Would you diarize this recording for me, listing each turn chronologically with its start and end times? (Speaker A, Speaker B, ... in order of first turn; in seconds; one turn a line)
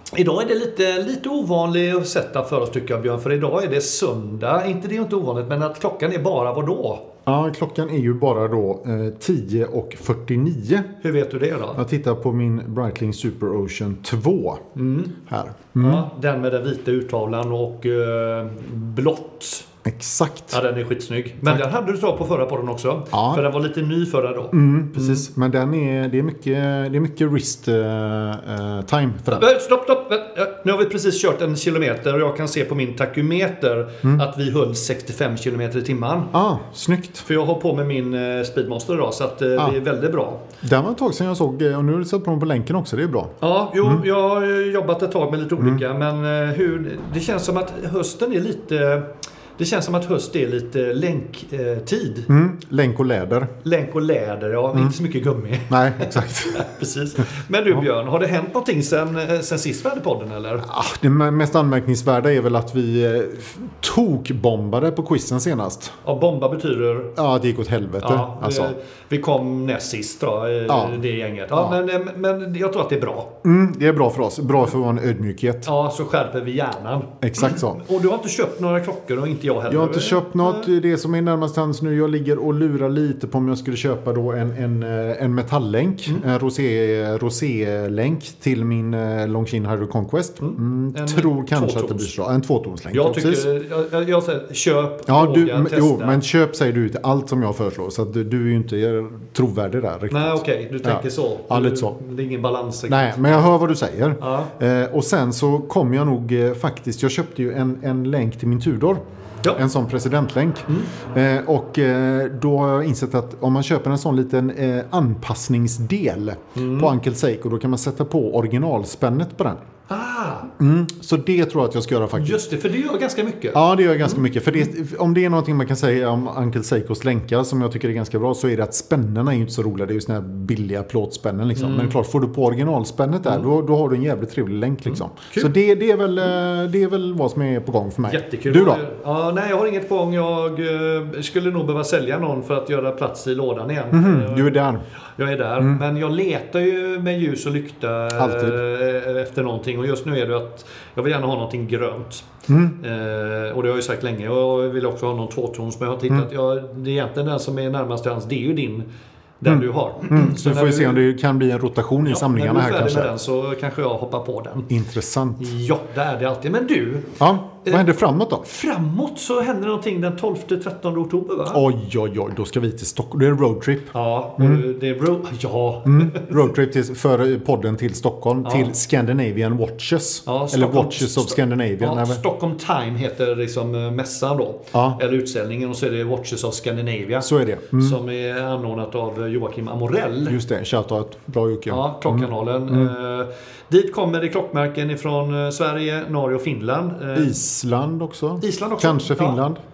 Speaker A: 0.1-7.1
Speaker B: 7.2-10.9
Speaker A: 11.0-11.8
Speaker B: 11.7-14.6
Speaker A: 14.7-15.2
Speaker B: 15.2-16.1
Speaker A: 15.8-19.7
Speaker B: 19.8-20.6
Speaker A: 20.5-25.3
Speaker B: 23.1-23.4
Speaker B: 24.5-29.5
Speaker A: 29.3-36.3
Speaker B: 36.3-37.3
Speaker A: 37.2-40.4
Speaker B: 40.6-44.0
Speaker A: 43.4-52.3
Speaker B: 52.3-53.5
Speaker A: 53.6-60.7
Speaker B: 55.7-56.7
Speaker B: 60.6-66.0
Speaker A: 66.0-67.1
Speaker B: 67.2-68.7
Speaker A: 68.0-73.3
Speaker B: 70.7-71.0
Speaker B: 73.4-75.7
Speaker A: 75.6-80.7
Speaker B: 77.2-77.8
Speaker B: 79.7-93.5
Speaker A: 90.4-92.1
Speaker A: 92.9-96.2
Speaker B: 95.1-101.9
Speaker A: 100.1-103.4
Speaker B: 102.9-109.0
Speaker A: 104.2-104.5
Speaker B: 109.5-119.6
Speaker A: 116.5-116.9
Speaker A: 119.9-120.5
Speaker B: 120.6-122.4
Speaker A: 122.2-123.6
Speaker B: 123.5-138.8
Speaker A: 131.6-131.9
Speaker A: 138.1-144.6
Speaker B: 143.9-144.8
Speaker A: 145.2-158.9
Speaker B: 148.2-148.6
Speaker B: 152.5-152.8
Speaker A: 159.4-161.0
Speaker B: 159.4-163.1
Speaker A: 162.0-164.7
Speaker B: 164.7-165.5
Speaker A: 165.4-171.6
Speaker B: 167.2-168.4
Speaker B: 171.5-174.6
Speaker A: 173.9-176.4
Speaker B: 175.8-182.2
Speaker A: 178.4-178.7
Speaker A: 180.2-190.4
Speaker B: 184.7-185.0
Speaker B: 187.2-188.0
Speaker B: 190.3-192.9
Speaker A: 191.7-197.3
Speaker B: 197.1-199.6
Speaker A: 198.4-199.4